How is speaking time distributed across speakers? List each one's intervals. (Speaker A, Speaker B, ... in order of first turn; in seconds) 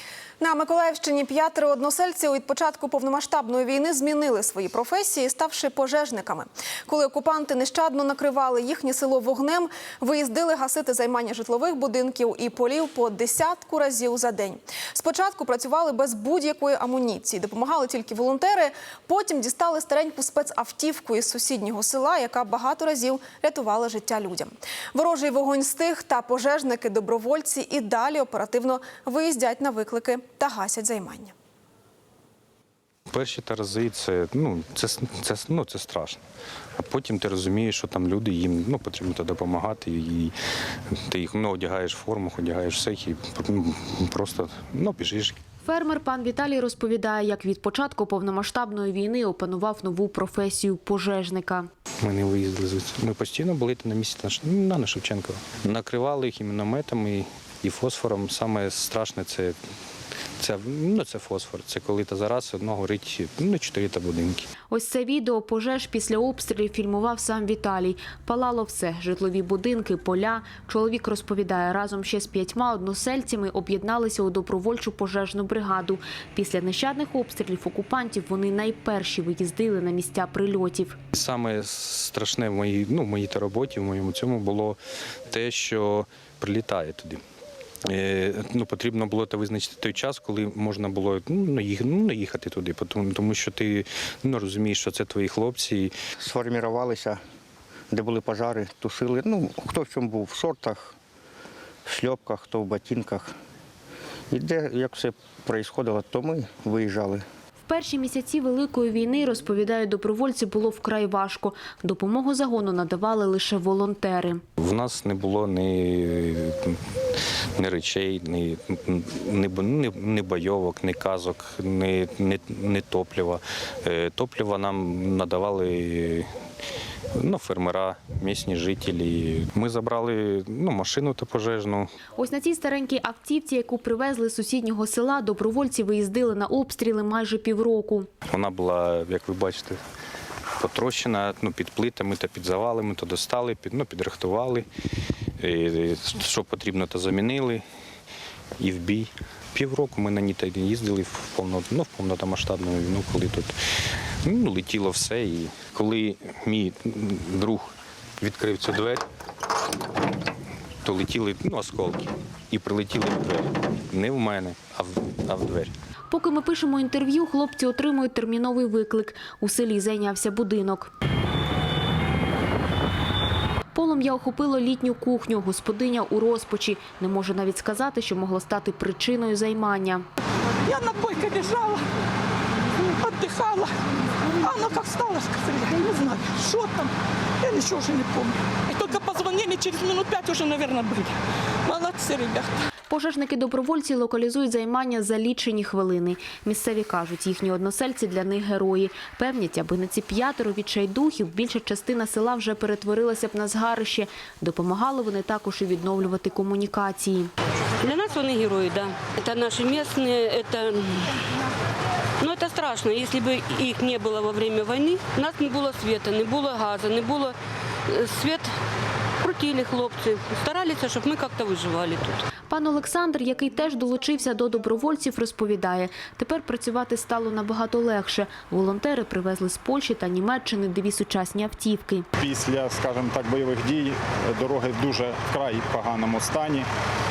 Speaker A: 0.4-31.3
Speaker B: 33.1-36.2, 36.8-40.3, 41.1-45.4, 52.0-59.6, 60.4-64.5, 81.1-84.8, 85.3-87.2, 87.9-95.9, 114.6-116.7, 117.6-126.3, 127.2-131.9, 138.3-139.8, 140.6-144.7, 145.4-147.6, 148.6-153.5, 154.2-157.6, 158.2-159.0, 160.8-165.7
Speaker C: 45.6-51.7, 64.7-81.0, 107.7-114.4, 132.2-138.1, 166.1-170.9, 173.7-180.0, 192.9-207.3, 222.5-232.1
Speaker D: 96.2-97.2, 97.9-101.0, 101.8-103.3, 104.3-107.2
Speaker E: 180.7-181.8, 183.0-183.7, 184.4-186.9, 187.4-191.1, 191.7-192.5
Speaker F: 207.8-211.2, 212.2-217.3, 217.9-218.5, 219.2-222.2
Speaker G: 232.2-236.7